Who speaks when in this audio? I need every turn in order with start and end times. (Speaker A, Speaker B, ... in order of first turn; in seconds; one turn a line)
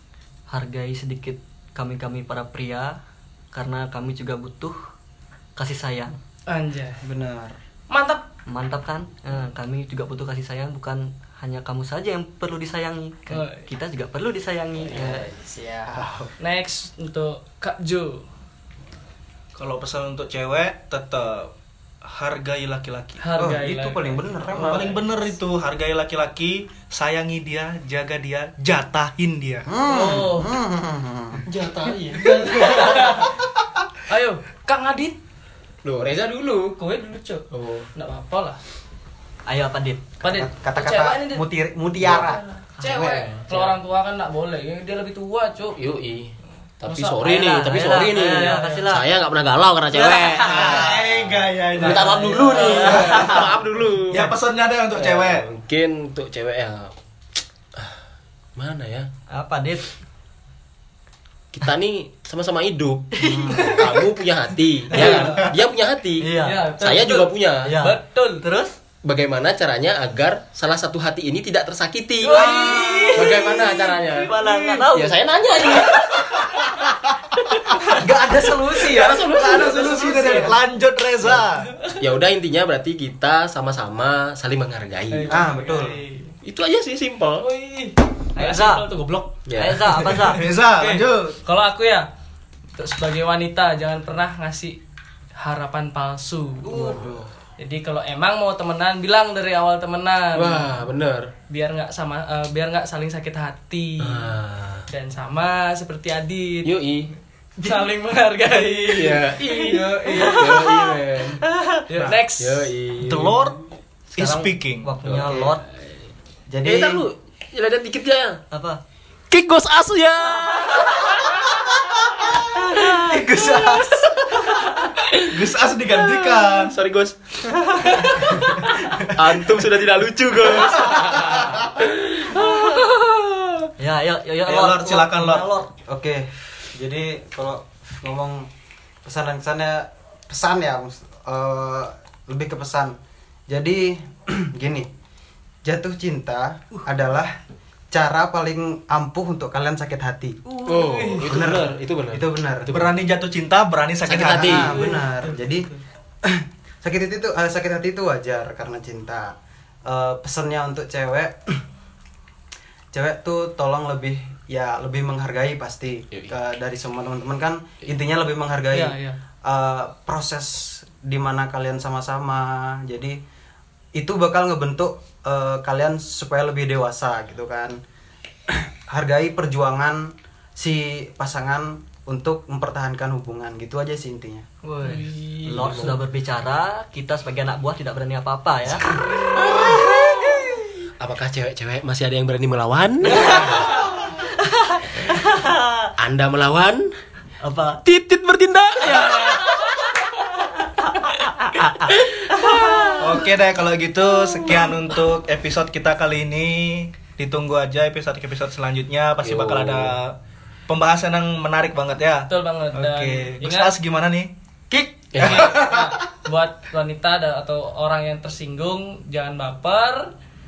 Speaker A: 0.5-3.0
Speaker A: 3.5-4.8
Speaker A: 5.6-6.2
Speaker B: 6.5-7.0
Speaker C: 7.0-7.6
Speaker B: 7.9-8.2
Speaker A: 8.5-15.3
Speaker B: 13.3-13.7
Speaker C: 14.9-16.3
Speaker B: 16.4-18.2
Speaker D: 19.6-21.5
Speaker D: 22.0-23.2
Speaker B: 23.2-25.0
Speaker C: 23.4-25.0
Speaker D: 24.6-29.7
Speaker C: 29.7-31.5
Speaker B: 29.9-30.6
Speaker E: 31.5-33.3
Speaker B: 32.1-33.4
Speaker B: 34.1-35.2
Speaker E: 35.8-36.8
Speaker B: 36.8-38.6
Speaker E: 37.5-37.9
Speaker A: 39.5-40.1
Speaker C: 40.2-43.3
Speaker B: 40.2-41.5
Speaker B: 42.0-45.9
Speaker A: 42.8-43.1
Speaker E: 43.1-43.8
Speaker E: 45.8-51.1
Speaker B: 46.8-48.9
Speaker A: 47.2-49.0
Speaker A: 49.9-51.0
Speaker D: 50.4-53.5
Speaker C: 50.6-51.4
Speaker B: 51.8-53.4
Speaker E: 51.8-54.3
Speaker A: 51.8-53.5
Speaker D: 54.1-55.5
Speaker E: 55.0-56.9
Speaker E: 58.6-59.1
Speaker A: 59.3-59.9
Speaker E: 61.5-67.8
Speaker A: 63.1-64.0
Speaker C: 63.2-63.8
Speaker B: 64.9-65.5
Speaker A: 66.2-66.7
Speaker B: 66.4-68.5
Speaker A: 67.7-68.8
Speaker E: 69.0-76.6
Speaker B: 72.2-74.9
Speaker A: 72.3-73.7
Speaker A: 74.2-75.2
Speaker B: 75.6-76.3
Speaker C: 78.0-80.5
Speaker E: 78.8-80.5
Speaker D: 79.0-81.7
Speaker E: 81.9-85.4
Speaker B: 85.1-86.3
Speaker C: 85.3-86.0
Speaker E: 86.4-87.5
Speaker B: 87.4-89.3
Speaker A: 88.4-88.9
Speaker E: 89.5-90.3
Speaker A: 89.6-90.5
Speaker D: 90.3-91.4
Speaker B: 90.8-92.1
Speaker B: 92.8-94.8
Speaker B: 95.4-97.0
Speaker C: 96.7-97.3
Speaker B: 97.6-100.7
Speaker E: 100.3-101.3
Speaker B: 101.5-104.3
Speaker E: 104.0-104.9
Speaker B: 104.9-106.7
Speaker E: 106.6-107.1
Speaker B: 107.6-110.7
Speaker E: 108.5-111.5
Speaker A: 110.1-111.8
Speaker B: 111.9-112.7
Speaker E: 112.0-113.6
Speaker D: 113.0-113.6
Speaker A: 114.2-115.6
Speaker D: 114.2-114.9
Speaker E: 115.0-115.9
Speaker C: 116.5-117.0
Speaker E: 116.7-118.4
Speaker A: 118.5-118.8
Speaker E: 119.3-121.7
Speaker A: 122.6-123.2
Speaker E: 122.7-123.8
Speaker C: 123.0-124.4
Speaker E: 124.7-125.2
Speaker D: 125.3-126.8
Speaker E: 126.1-127.2
Speaker B: 127.8-129.0
Speaker E: 129.0-132.3
Speaker A: 132.3-132.8
Speaker B: 132.3-133.1
Speaker A: 133.8-135.7
Speaker D: 134.5-135.5
Speaker C: 135.9-138.5
Speaker C: 139.0-143.0
Speaker C: 143.5-144.9
Speaker C: 145.6-147.3
Speaker C: 147.9-150.4
Speaker B: 150.5-151.4
Speaker E: 150.7-153.0
Speaker C: 151.3-152.7
Speaker D: 152.7-154.8
Speaker E: 154.1-154.8
Speaker C: 154.3-155.7
Speaker B: 154.8-155.8
Speaker C: 156.2-161.6
Speaker C: 162.9-173.2
Speaker B: 168.7-169.2
Speaker C: 173.9-177.8
Speaker C: 178.5-184.5
Speaker A: 184.6-190.6
Speaker B: 184.8-185.9
Speaker E: 185.6-186.0
Speaker B: 189.1-189.9
Speaker E: 189.4-189.9
Speaker E: 191.0-193.7
Speaker A: 193.1-195.9
Speaker B: 193.2-193.7
Speaker E: 196.0-196.9
Speaker A: 197.4-197.8
Speaker E: 197.8-199.7
Speaker A: 200.4-203.2
Speaker E: 201.9-202.9
Speaker D: 203.0-210.2
Speaker E: 209.2-210.0
Speaker D: 210.7-214.3
Speaker B: 212.3-213.7
Speaker C: 214.7-215.1
Speaker E: 215.1-215.6
Speaker D: 215.2-215.9
Speaker B: 215.2-220.1